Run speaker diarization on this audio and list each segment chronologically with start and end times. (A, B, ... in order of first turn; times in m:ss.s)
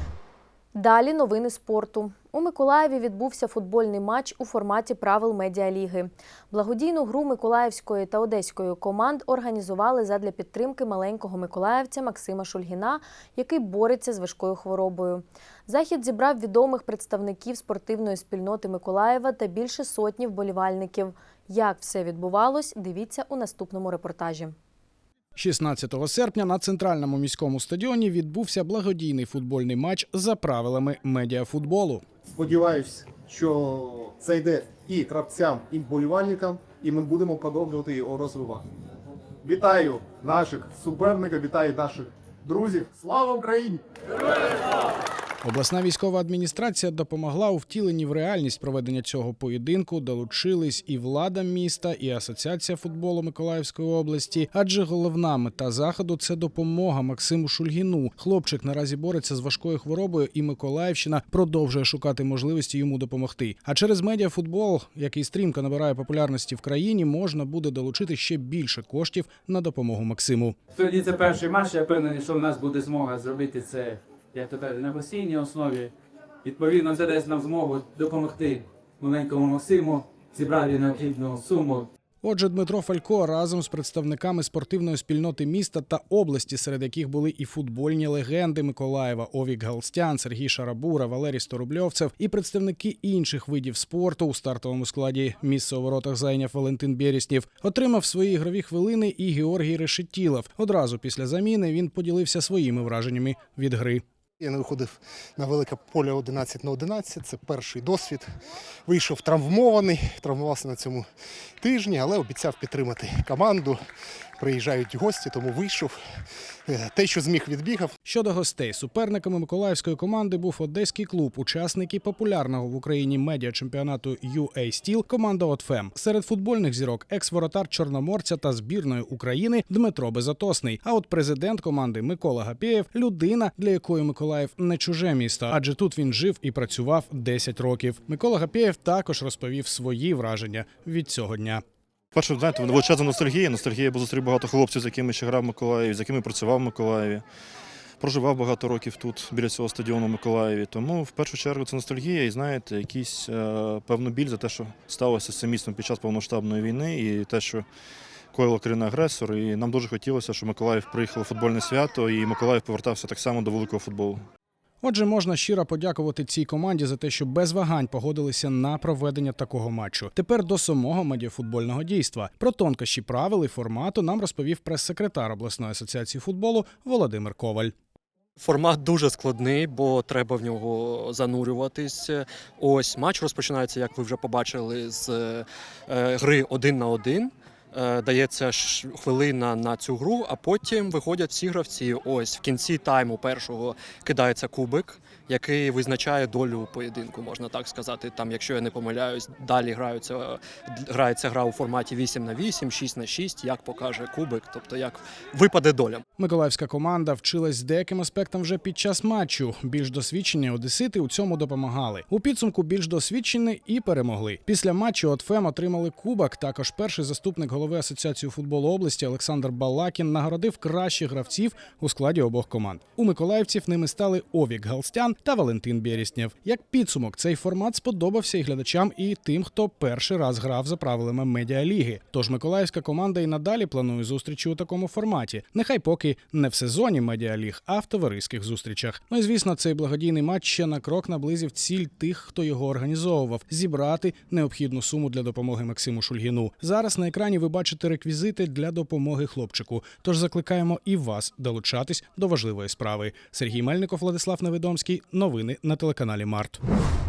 0:00.7-0:24.5 A
0:25.3-0:32.0 B
0:32.3-0:38.6 C
0:39.4-0:43.8 C
0:45.4-1:10.6 B
1:10.8-1:15.9 D
1:16.4-1:21.9 D
1:22.2-1:44.0 B
1:44.4-1:48.2 E
1:48.9-1:51.0 E
1:51.7-1:53.8 E
1:54.5-1:55.9 E
1:56.7-1:57.9 E
1:58.0-2:21.6 B
2:22.1-2:27.2 F
2:28.0-2:37.6 F
2:38.3-2:44.2 F
2:44.8-2:57.7 B
2:58.4-3:26.0 G
3:26.2-4:16.6 B